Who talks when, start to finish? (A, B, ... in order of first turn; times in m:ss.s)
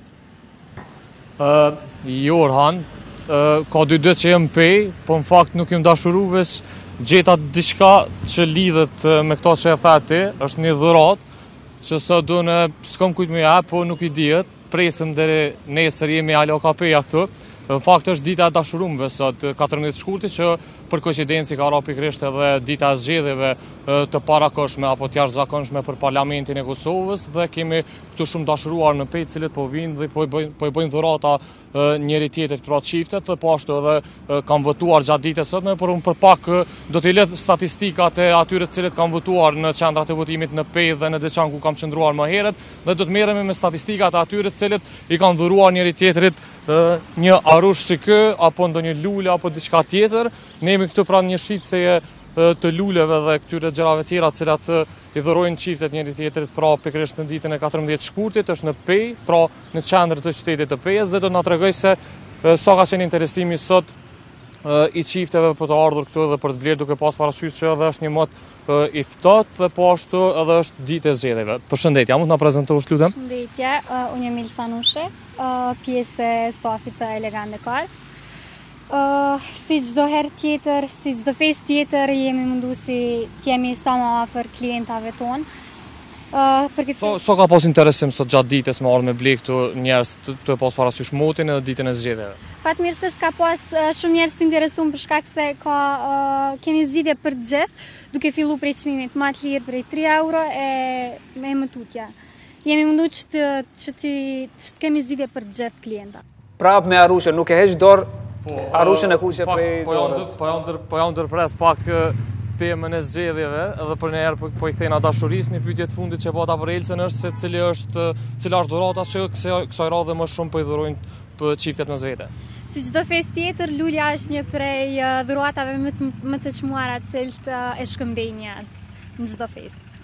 0:01.4-0:11.2 A
0:11.8-1:03.9 A
1:04.6-1:13.1 A
1:13.1-1:17.9 B
1:18.9-1:25.5 B
1:26.3-1:27.2 B
1:27.0-1:32.4 A
1:32.6-1:46.2 B
1:46.6-1:48.1 C
1:48.4-2:02.3 A
1:48.7-1:50.3 C
2:02.7-2:09.8 B